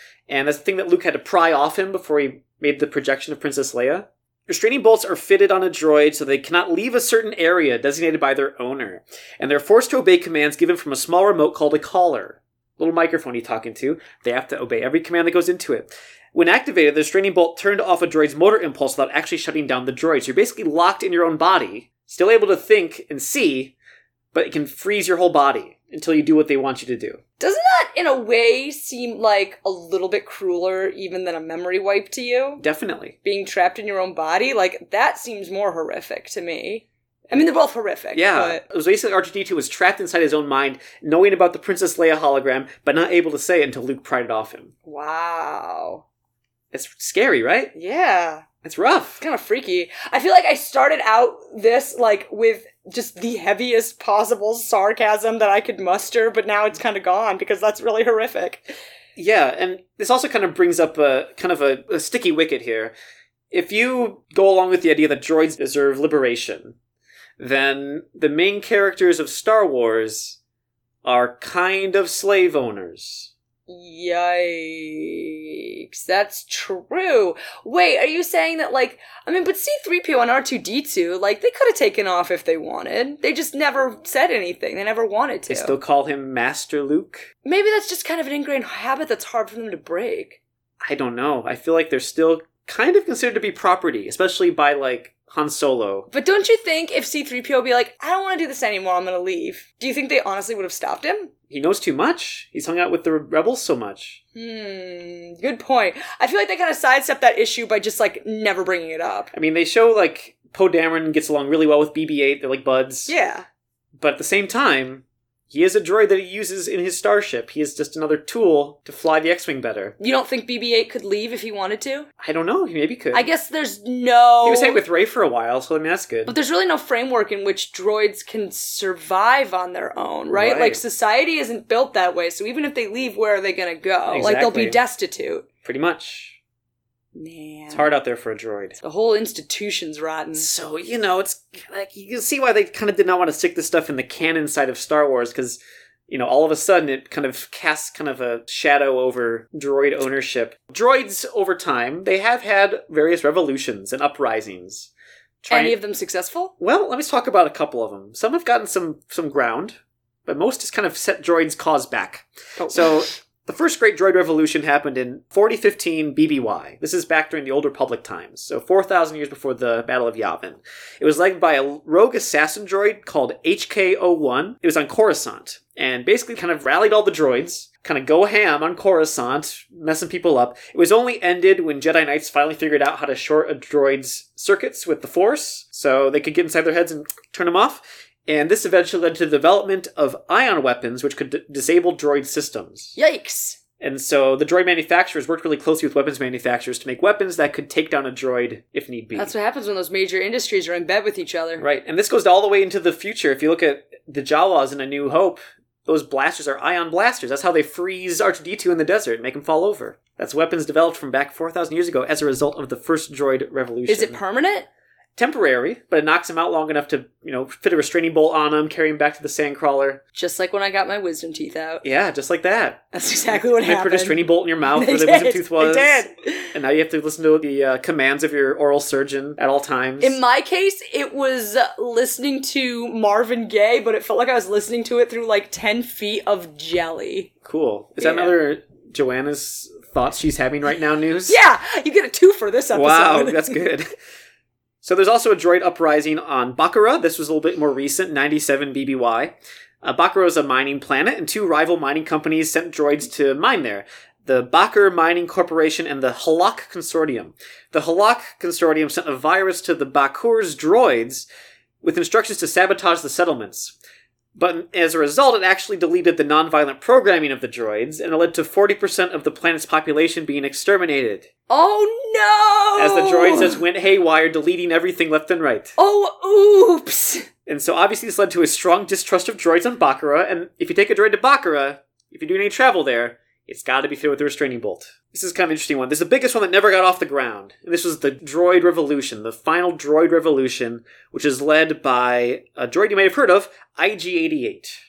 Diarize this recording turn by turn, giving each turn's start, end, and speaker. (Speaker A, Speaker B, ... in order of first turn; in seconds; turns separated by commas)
Speaker A: 0.3-23.7, Speaker A: 24.3-27.2, Speaker B: 27.4-32.6, Speaker A: 32.6-33.1, Speaker B: 33.2-38.6, Speaker A: 38.1-44.7, Speaker B: 44.9-46.0, Speaker A: 46.7-47.7, Speaker B: 47.7-48.4, Speaker A: 48.6-49.2, Speaker B: 49.2-58.7, Speaker A: 59.1-62.9, Speaker A: 63.5-66.8, Speaker A: 67.4-70.4, Speaker A: 71.0-73.3, Speaker B: 73.7-85.8, Speaker A: 85.5-87.3, Speaker B: 87.4-90.4, Speaker A: 90.8-96.1, Speaker B: 96.1-101.3, Speaker A: 101.5-104.2, Speaker B: 104.3-109.3, Speaker A: 109.3-113.1, Speaker B: 113.1-113.4, Speaker A: 114.0-119.9, Speaker B: 120.0-122.1, Speaker A: 122.2-123.3, Speaker B: 123.1-124.8, Speaker A: 124.4-126.3, Speaker B: 126.2-135.4, Speaker A: 130.3-130.8, Speaker A: 134.1-134.8, Speaker A: 135.6-136.4, Speaker B: 137.1-137.9, Speaker A: 137.7-138.7, Speaker B: 138.8-140.5, Speaker A: 140.3-154.9, Speaker A: 155.4-155.8, Speaker B: 155.5-156.5, Speaker A: 156.6-193.0, Speaker B: 162.6-163.1, Speaker B: 193.0-193.6, Speaker A: 193.8-199.3, Speaker B: 199.1-201.6, Speaker A: 201.6-214.2, Speaker B: 213.9-214.7, Speaker A: 215.2-220.0, Speaker B: 220.1-221.8, Speaker A: 221.8-222.8, Speaker B: 222.9-226.5, Speaker A: 223.5-230.2, Speaker B: 230.0-237.3, Speaker A: 237.4-241.4, Speaker B: 238.0-238.3, Speaker B: 241.3-243.6, Speaker A: 242.7-243.9, Speaker A: 244.8-261.3, Speaker A: 261.8-263.8, Speaker A: 264.3-271.3, Speaker B: 271.5-273.6, Speaker A: 272.8-275.7, Speaker B: 275.8-277.3, Speaker A: 277.4-294.8